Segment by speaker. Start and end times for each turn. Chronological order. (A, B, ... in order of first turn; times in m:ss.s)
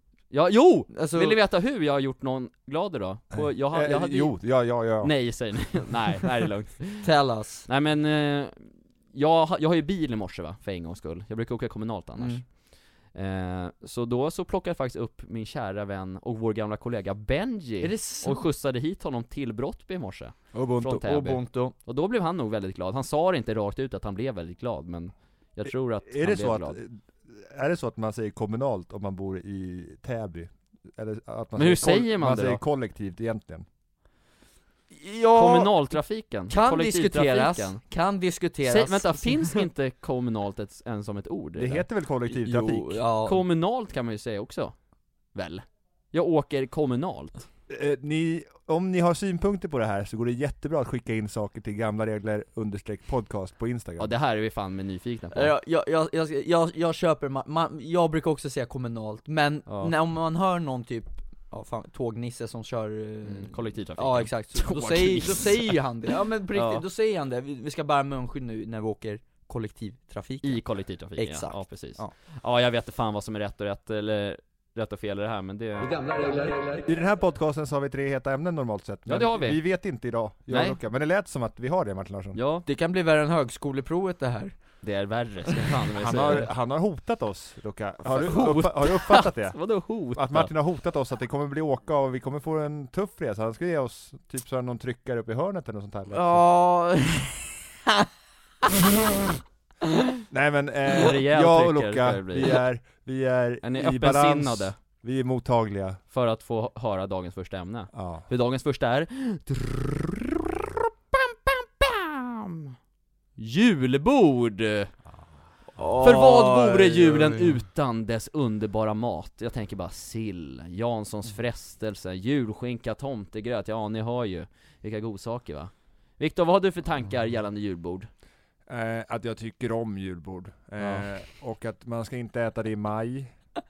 0:00.3-0:04.4 A
0:00.9-0:01.4 B
0:03.3-0:05.1 C
0:05.0-0:07.1 A
0:07.0-0:07.7 B
0:07.7-0:26.8 A
0:12.2-0:12.4 B
0:17.8-0:18.4 B
0:20.5-0:21.2 C
0:21.0-0:21.8 B
0:25.7-0:33.7 C
0:31.6-0:32.6 A
0:34.9-0:36.0 B
0:35.4-0:37.8 A
0:36.5-0:39.6 B
0:38.6-0:41.8 A
0:41.6-0:43.0 C
0:42.3-0:43.4 B
0:43.2-0:44.8 A
0:45.3-0:47.5 A
0:47.7-0:54.1 C
0:54.0-0:55.5 A
0:55.3-1:10.6 B
0:59.7-0:59.9 A
1:03.2-1:05.9 A
1:06.5-1:06.8 A
1:10.4-1:16.6 A
1:11.2-1:12.1 B
1:16.8-1:22.4 C
1:19.1-1:19.6 A
1:20.5-1:20.8 A
1:22.3-1:22.7 A
1:22.7-1:24.6 B
1:24.8-1:26.5 A
1:26.0-1:36.4 C
1:28.1-1:30.5 A
1:36.1-1:38.1 B
1:40.3-1:46.0 C
1:41.0-1:42.6 A
1:43.6-1:44.8 A
1:46.1-1:50.6 A
1:47.9-1:48.3 C
1:51.1-1:52.6 A
1:53.4-1:54.9 A
1:55.8-1:57.6 B
1:56.0-2:08.1 A
2:08.7-2:13.3 C
2:10.8-2:11.0 A